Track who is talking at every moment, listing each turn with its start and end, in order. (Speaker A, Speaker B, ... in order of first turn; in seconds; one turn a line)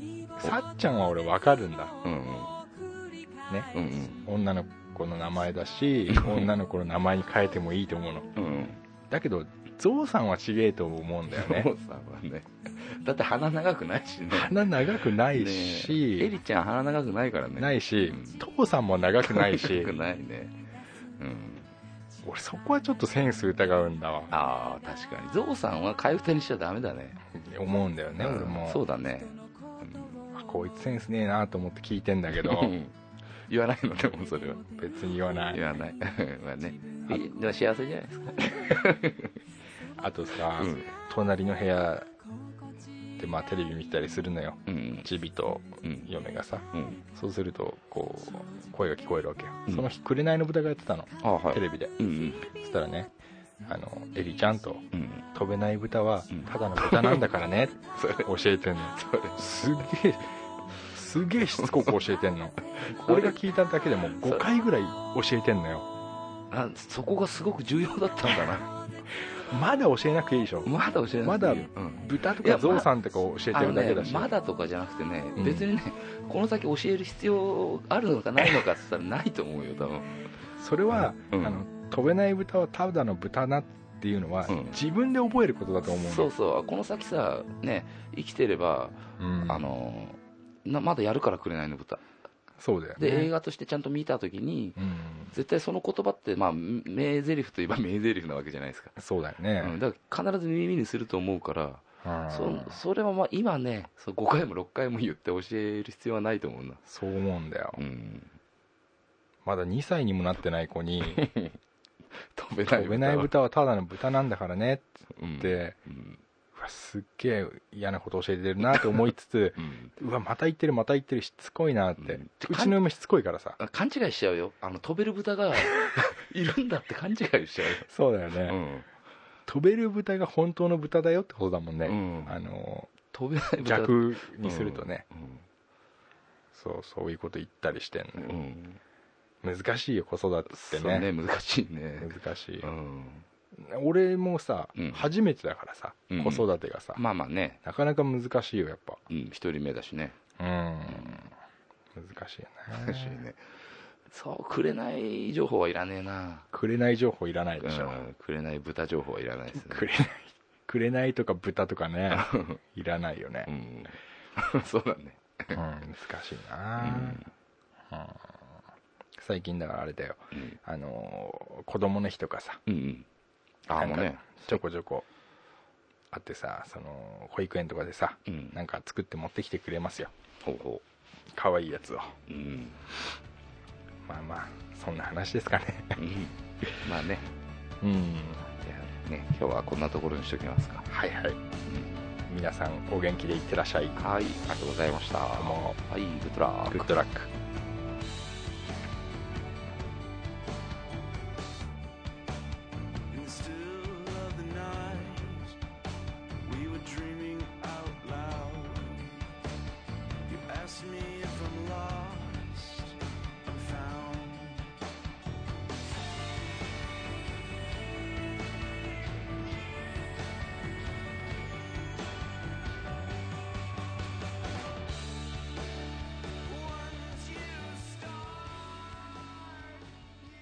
Speaker A: 0.4-1.9
Speaker B: 2.0-2.6
Speaker B: 3.7-4.2
Speaker A: 4.2-8.3
Speaker B: 6.1-6.5
Speaker B: 8.3-8.8
Speaker A: 9.1-11.7
Speaker B: 11.3-18.4
Speaker A: 14.3-16.3
Speaker A: 17.6-19.9
Speaker B: 19.2-20.6
Speaker B: 21.2-21.7
Speaker A: 22.2-24.3
Speaker B: 24.3-27.2
Speaker A: 27.3-28.8
Speaker B: 28.2-30.2
Speaker A: 30.3-32.7
Speaker B: 32.3-32.9
Speaker B: 33.5-34.7
Speaker A: 34.7-35.6
Speaker B: 35.5-39.3
Speaker A: 40.0-42.1
Speaker B: 40.5-40.9
Speaker A: 43.2-53.1
Speaker B: 44.7-45.1
Speaker B: 45.8-46.1
Speaker B: 46.7-47.0
Speaker B: 51.2-52.5
Speaker A: 53.6-65.9
Speaker B: 54.9-55.3
Speaker B: 56.3-57.2
Speaker B: 57.9-58.3
Speaker B: 58.9-59.4
Speaker B: 62.8-63.4
Speaker B: 64.1-64.5
Speaker B: 66.5-68.7
Speaker A: 69.5-74.3
Speaker B: 70.6-72.9
Speaker B: 73.5-80.1
Speaker A: 75.4-75.7
Speaker A: 80.6-86.3
Speaker B: 81.3-81.6
Speaker B: 84.5-84.8
Speaker B: 85.9-92.0
Speaker A: 89.2-89.7
Speaker A: 92.6-93.3
Speaker B: 93.0-94.8
Speaker A: 94.8-95.3
Speaker B: 95.3-98.9
Speaker A: 99.0-99.8
Speaker B: 99.6-106.8
Speaker A: 102.0-102.8
Speaker A: 106.8-107.8
Speaker B: 107.8-108.3
Speaker A: 109.4-111.2
Speaker B: 111.1-111.6
Speaker B: 112.2-113.3
Speaker A: 112.7-114.9
Speaker B: 115.2-116.2
Speaker A: 115.4-115.8
Speaker A: 116.5-123.6
Speaker B: 119.6-119.9
Speaker B: 122.0-122.8
Speaker B: 123.6-127.9
Speaker A: 127.8-128.6
Speaker B: 128.5-128.9
Speaker A: 129.5-132.9
Speaker B: 131.8-132.4
Speaker B: 133.1-135.4
Speaker A: 133.6-135.1
Speaker A: 136.5-138.3
Speaker B: 138.2-138.8
Speaker A: 139.4-141.1
Speaker B: 140.5-143.2
Speaker A: 142.0-142.7
Speaker A: 143.5-147.0
Speaker B: 144.8-145.1
Speaker B: 146.1-147.6
Speaker A: 147.6-149.0
Speaker B: 149.1-150.2
Speaker A: 150.4-151.3
Speaker B: 150.9-151.2
Speaker A: 151.9-153.2
Speaker B: 152.7-153.4
Speaker B: 154.1-156.4
Speaker A: 156.5-158.0
Speaker B: 157.6-159.9
Speaker A: 159.5-163.5
Speaker B: 162.1-162.6
Speaker B: 163.5-165.6
Speaker A: 165.5-167.2
Speaker B: 166.8-167.3
Speaker A: 167.9-168.3
Speaker A: 169.2-172.6
Speaker B: 172.7-173.1
Speaker B: 173.7-174.6
Speaker A: 173.8-175.1
Speaker A: 176.1-180.1
Speaker B: 178.3-178.5
Speaker B: 180.4-180.8
Speaker A: 181.3-182.2
Speaker B: 182.3-182.8
Speaker A: 184.0-186.0
Speaker B: 186.0-187.3
Speaker A: 187.8-188.4
Speaker B: 188.4-190.8
Speaker A: 190.9-191.4
Speaker B: 191.7-191.9
Speaker A: 192.3-194.0
Speaker B: 194.0-196.9
Speaker A: 195.3-195.8
Speaker A: 196.7-197.3
Speaker C: 203.1-205.6
Speaker C: 206.4-209.1
Speaker C: 210.3-214.7
Speaker C: 226.4-229.3